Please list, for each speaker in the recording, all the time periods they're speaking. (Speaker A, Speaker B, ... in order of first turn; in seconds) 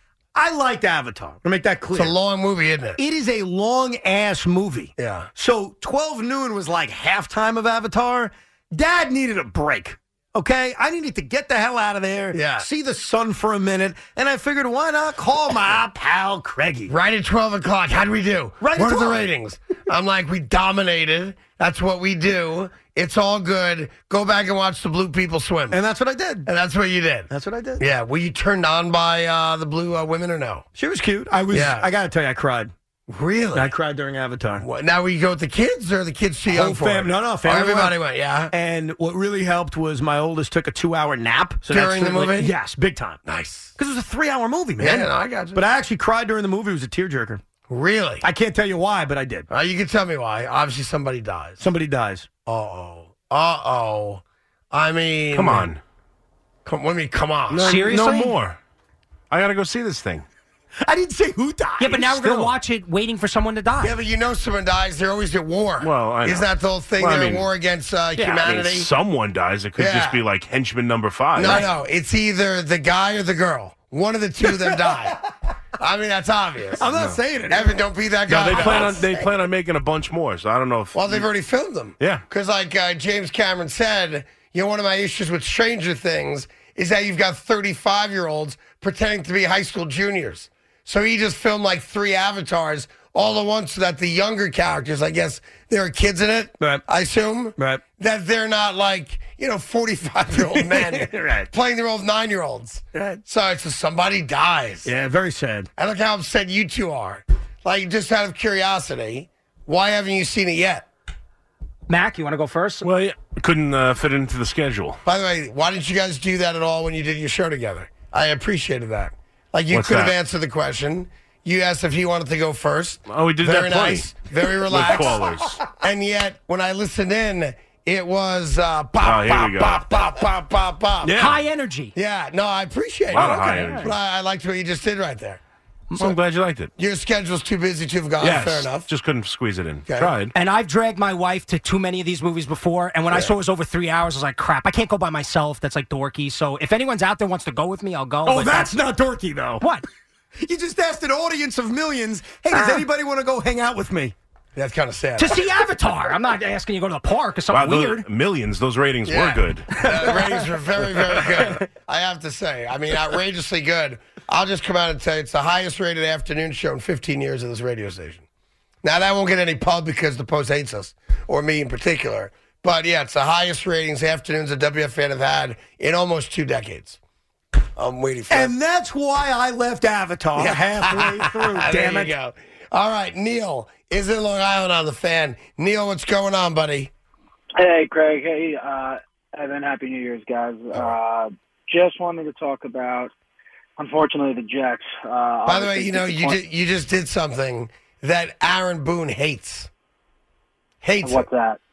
Speaker A: 0.3-2.1, 3.0-16.9, 18.6-19.2, 25.7-26.5, 27.3-27.8, 30.8-32.7, 33.5-34.6, 36.5-38.0, 38.5-43.2, 43.8-47.4, 48.2-49.5, 51.6-52.3, 57.9-58.3, 60.8-62.3, 74.5-75.0, 76.8-77.7, 78.5-79.2, 100.4-101.5, 102.9-103.2, 104.8-105.7, 148.3-149.6, 150.4-154.2, 178.3-182.1
Speaker B: 1.9-3.0, 5.0-5.3, 12.3-12.7, 16.9-25.8, 26.5-30.6, 31.5-31.9, 33.1-33.7, 34.6-38.5, 41.7-42.5, 43.3-43.7, 44.8-45.6, 47.7-48.2, 49.5-51.6, 52.5-55.7, 56.6-57.8, 63.8-68.9, 69.8-70.2, 71.4-75.2, 75.8-76.9, 77.5-79.1, 80.9-104.9, 105.8-110.9, 115.0-131.2, 131.9-135.4, 136.8-138.9, 139.9-140.1, 154.6-155.5, 159.1-168.2, 168.8-177.0, 177.8-178.5, 180.4-186.9, 195.5-199.7, 200.8-201.3
Speaker C: 55.3-55.8, 57.5-58.6, 59.3-60.2, 62.2-62.5, 65.8-66.5, 67.0-67.5, 68.4-71.7, 76.9-77.2, 78.3-81.2, 82.0-82.2, 112.8-115.0, 119.7-120.1, 123.1-124.1, 124.7-125.6, 129.0-129.9, 131.0-131.4, 133.1-133.9, 135.9-136.7, 138.2-140.3, 157.5-159.8
Speaker D: 57.6-58.4, 61.8-64.0, 111.9-112.9, 131.1-131.9, 133.2-133.9, 140.3-148.8, 149.6-149.8, 155.2-158.1
Speaker E: 187.6-193.1, 193.8-196.4, 201.0-201.6